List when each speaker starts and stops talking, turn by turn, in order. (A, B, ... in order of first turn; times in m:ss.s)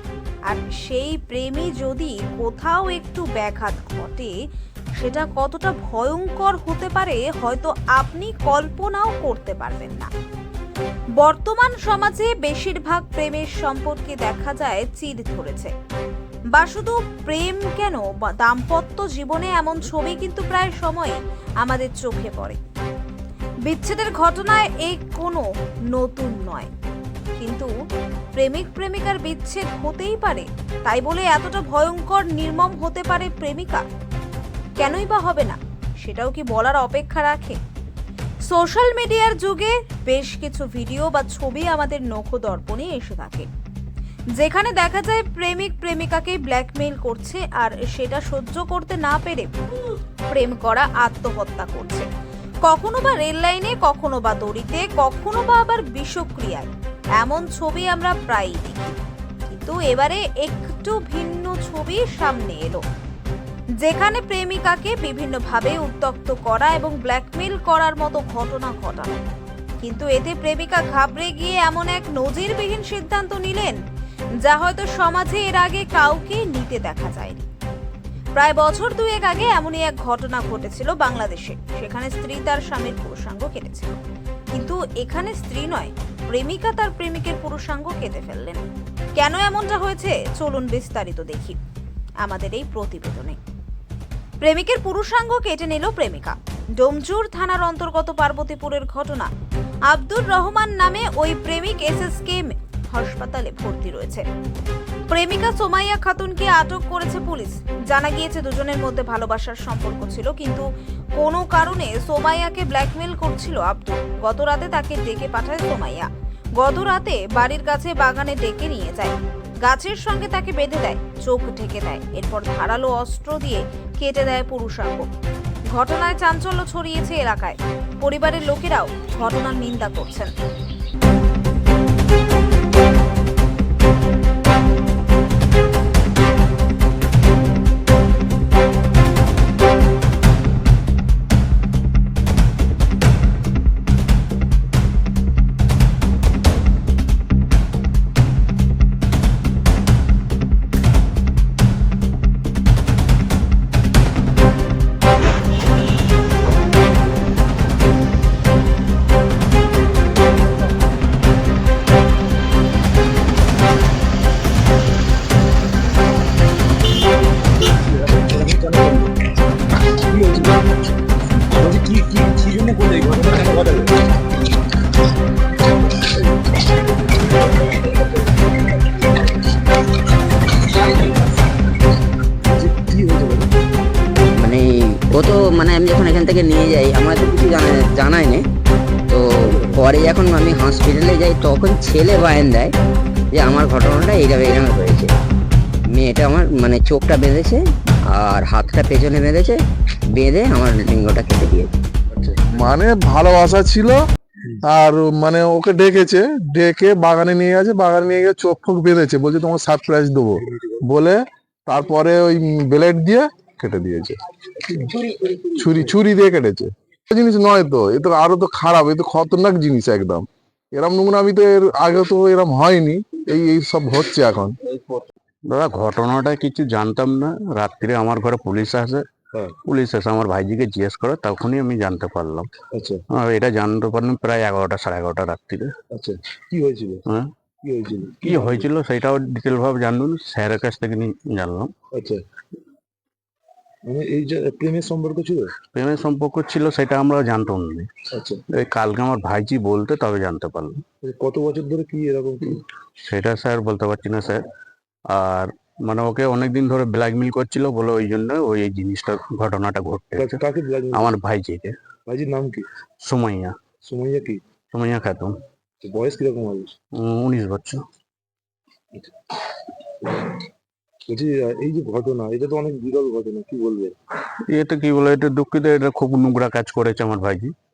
0:00.5-0:04.3 A
0:05.0-0:10.1 A
0:11.2-0:15.7 A
0:16.5-0:22.6 A
0:23.7-0:26.7 A
0:27.4-0:27.7 A
0:28.3-0:33.8 A
0:34.8-0:37.6 A
0:38.5-0:43.5 A
0:44.4-0:49.6 A
0:50.3-0:52.1 A
0:52.6-1:02.8 A
1:03.8-1:09.2 A
1:09.8-1:13.8 A
1:14.4-1:17.5 A
1:18.4-1:24.0 A
1:24.5-1:28.6 A
1:29.2-1:31.6 A
1:32.2-1:33.4 A
1:34.4-1:39.3 A
1:39.9-1:44.2 A
1:45.1-2:05.1 A
2:05.7-2:10.3 A
2:47.6-2:49.1 B
2:50.1-2:50.6 B
2:51.4-2:54.0 B
2:56.0-2:57.9 B
3:02.4-3:03.5 B
3:04.3-3:08.5 C
3:09.1-3:12.7 C
3:09.4-3:09.8 B
3:13.3-3:15.1 C
3:15.9-3:21.7 C
3:22.1-3:22.4 B
3:22.5-3:24.0 D
3:24.6-3:34.2 D
3:35.4-3:44.6 D
3:45.5-3:49.0 E
3:49.7-3:52.5 E
3:52.7-3:53.0 B
3:53.1-3:55.7 E
3:55.9-3:57.0 B
3:57.6-3:58.6 B
3:58.2-4:01.7 E
4:01.9-4:02.2 B
4:03.8-4:05.5 B
4:05.7-4:07.9 E
4:08.1-4:08.4 B
4:08.5-4:10.8 E
4:11.0-4:12.6 B
4:13.0-4:14.4 E
4:15.1-4:21.7 E
4:20.1-4:21.1 B
4:22.1-4:22.7 B
4:23.0-4:23.6 E
4:23.8-4:24.4 B
4:24.7-4:25.4 E
4:25.8-4:26.7 B
4:26.9-4:27.8 E
4:28.9-4:29.3 B
4:31.1-4:34.0 B
4:34.5-4:37.5 E